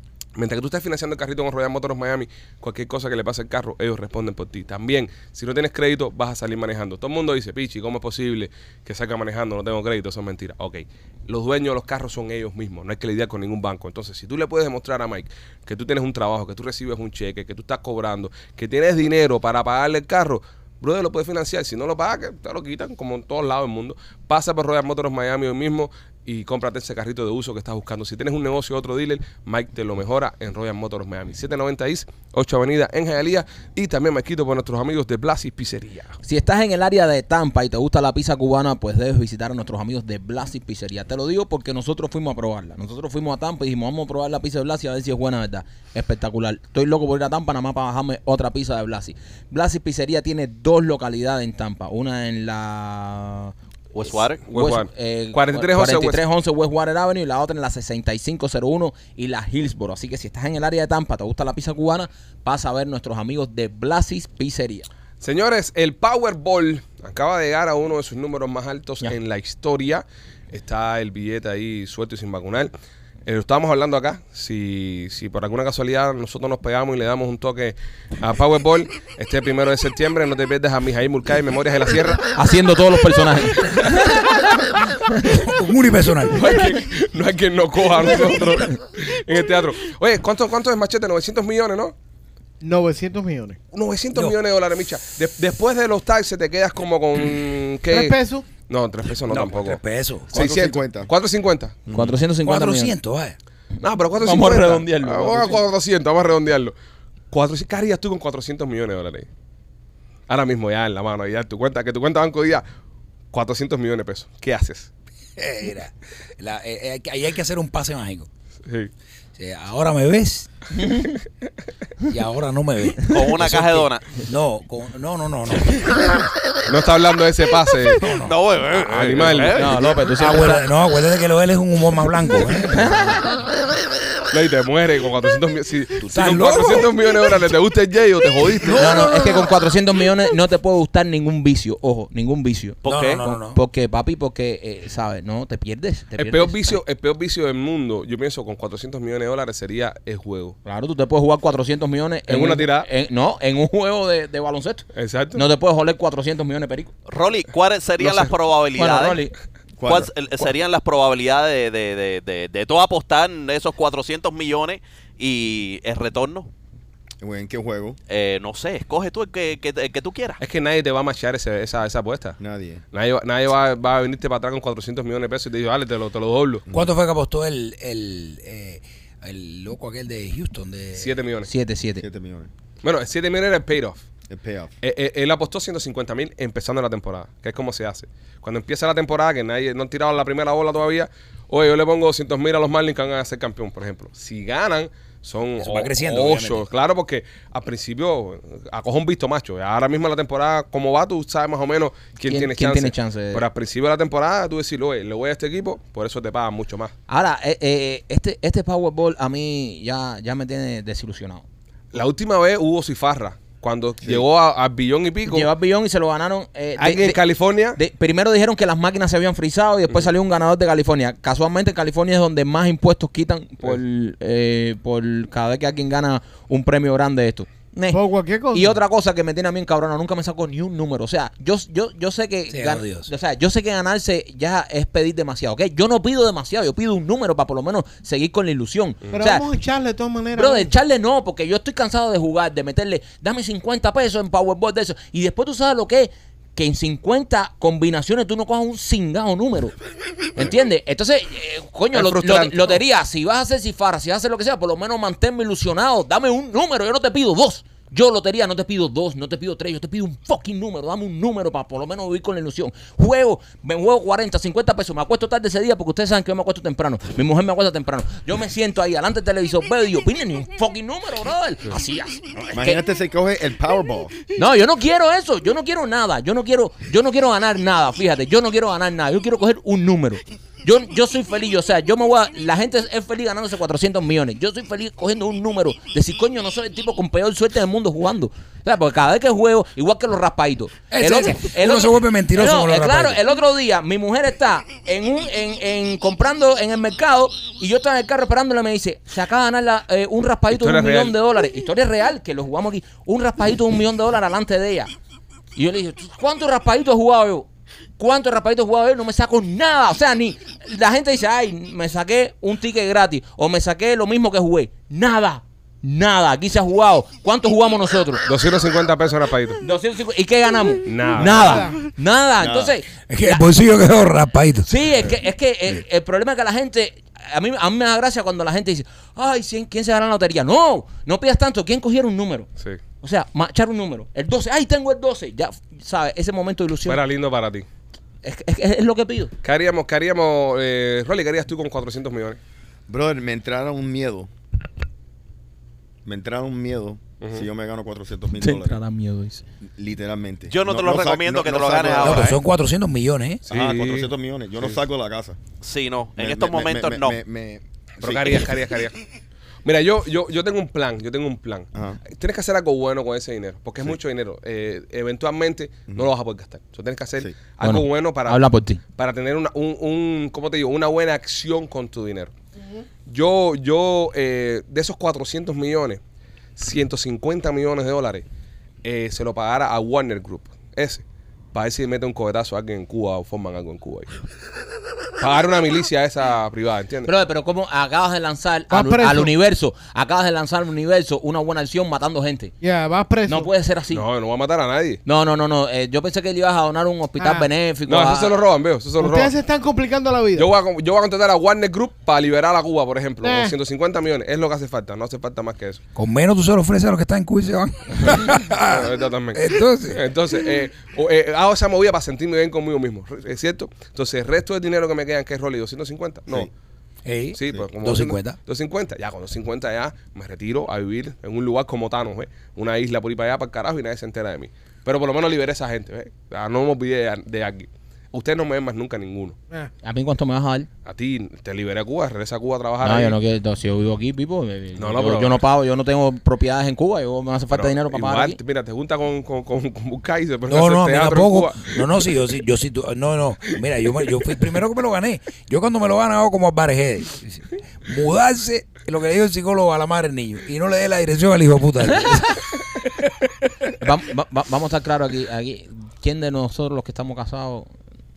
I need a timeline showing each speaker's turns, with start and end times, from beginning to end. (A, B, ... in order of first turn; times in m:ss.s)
0:00.4-0:36.2 A
0:36.2-0:53.5 B
0:53.9-0:54.4 C
0:54.1-1:04.9 B
0:54.5-0:56.2 A
1:05.2-1:12.7 A
1:13.2-1:22.3 A
1:22.4-1:24.5 B
1:25.0-1:25.4 B
1:25.2-1:26.4 D
1:26.3-1:31.9 A
1:32.6-1:33.6 E
1:33.7-1:39.8 A
1:37.9-1:38.5 E
1:39.3-1:40.6 D
1:40.3-1:41.1 F
1:40.3-1:41.8 A
1:41.9-1:42.2 F
1:41.9-1:42.9 B
1:42.4-1:43.4 D
1:43.8-1:46.7 A
1:44.2-1:45.6 B
1:47.3-1:49.3 A
1:50.3-1:52.6 A
1:53.3-1:54.9 A
1:55.4-1:58.3 D
1:58.6-1:58.9 A
1:59.4-2:00.5 D
2:00.8-2:01.2 B
2:02.1-2:06.2 D
2:03.0-2:04.1 C
2:06.7-2:08.0 A
2:08.0-2:08.4 D
2:08.1-2:10.0 C
2:08.8-2:09.7 A
2:09.5-2:10.7 B
2:10.0-2:13.2 D
2:12.7-2:13.3 B
2:14.3-2:19.0 A
2:16.0-2:16.9 D
2:18.6-2:19.5 D
2:18.8-2:26.8 B
2:22.8-2:23.2 C
2:22.8-2:23.6 D
2:26.2-2:30.6 A
2:30.6-2:36.9 B
2:32.3-2:32.9 A
2:34.9-2:35.4 A
2:37.1-2:39.2 C
2:38.0-2:38.3 A
2:38.8-2:39.3 B
2:39.8-2:40.1 F
2:39.8-2:46.5 C
2:47.2-2:48.0 F
2:48.1-2:50.4 C
2:50.4-2:52.4 A
2:52.4-2:52.8 F
2:52.9-2:56.6 A
2:56.7-3:01.1 D
3:01.0-3:01.5 A
3:01.4-3:02.0 B
3:02.0-3:02.5 F
3:02.8-3:04.0 A
3:04.3-3:04.7 F
3:04.8-3:26.9 A
3:15.6-3:16.6 D
3:22.2-3:23.4 B
3:27.1-3:31.4 B
3:31.9-3:35.5 A
3:35.3-3:37.2 B
3:36.8-3:37.8 A
3:37.8-3:48.0 B
3:47.9-3:48.8 E
3:48.5-3:59.4 B
3:52.5-3:53.1 D
3:59.1-4:00.7 E
4:00.4-4:09.7 B
4:10.4-4:32.8 B
4:11.9-4:12.8 A
4:32.5-4:34.1 F
4:34.4-5:04.9 B
4:50.9-4:53.2 D
5:00.5-5:01.1 A
5:05.6-5:18.2 B
5:18.3-5:19.6 A
5:19.6-5:23.5 B
5:20.8-5:21.7 A
5:21.3-5:21.8 E
5:22.4-5:22.8 F
5:23.1-5:24.7 D
5:24.6-5:32.5 B
5:33.0-5:37.0 B
5:36.9-5:37.6 A
5:38.2-5:39.3 B
5:39.4-5:42.4 A
5:42.9-5:44.3 F
5:46.0-5:48.8 F
5:47.2-5:47.4 A
5:48.4-5:49.4 B
5:49.8-5:52.4 F
5:50.5-5:52.4 C
5:52.0-5:53.4 D
5:53.5-5:55.4 F
5:53.5-5:54.1 A
5:55.6-5:57.2 C
5:56.2-5:58.5 F
5:58.0-5:59.0 A
5:59.6-6:08.4 A
6:01.7-6:02.0 F
6:07.6-6:08.8 B
6:09.0-6:12.3 A
6:13.1-6:16.0 A
6:16.6-6:18.2 A
6:18.8-6:24.1 A
6:25.2-6:27.1 A
6:27.1-6:32.5 B
6:28.7-6:29.3 E
6:32.6-6:33.5 E
6:33.2-6:34.0 B
6:33.9-6:35.0 A
6:35.1-6:38.4 B
6:37.2-6:37.5 E
6:37.9-6:39.3 A
6:39.0-6:40.5 E
6:40.4-6:45.8 A
6:43.2-6:43.5 E
6:45.9-6:50.0 D
6:48.7-6:56.5 A
6:57.1-6:58.4 D
6:57.3-7:09.4 A
7:09.8-7:10.7 B
7:10.8-7:13.1 A
7:12.8-7:18.4 B
7:14.8-7:15.4 A
7:17.5-7:22.0 A
7:20.5-7:33.0 D
7:33.8-7:37.7 B